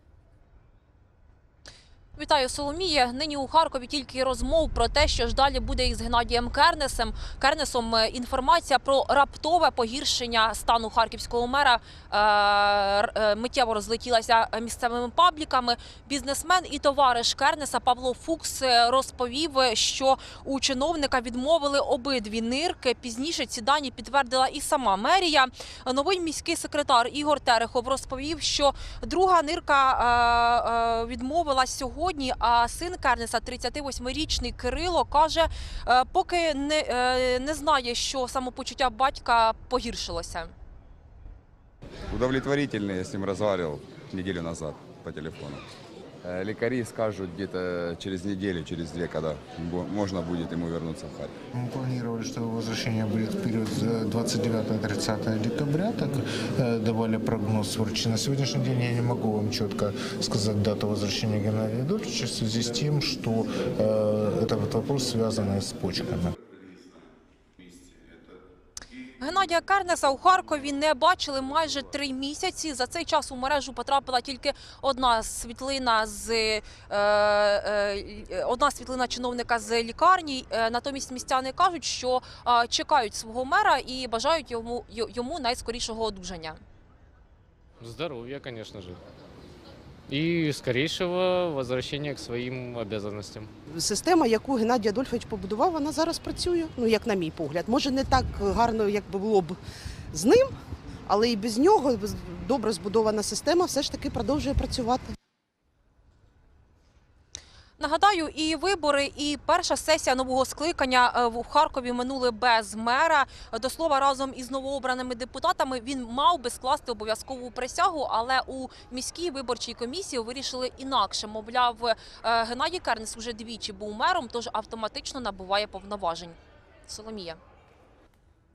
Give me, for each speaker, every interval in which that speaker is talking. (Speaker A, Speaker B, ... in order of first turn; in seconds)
Speaker A: 2.2-40.5, 69.2-86.6, 107.8-126.4, 126.9-127.4
Speaker B: 42.1-45.7, 46.2-51.3
Speaker C: 51.5-66.3
Speaker D: 87.8-89.0, 90.1-93.5
Speaker E: 93.7-99.6, 100.1-100.5, 101.1-105.1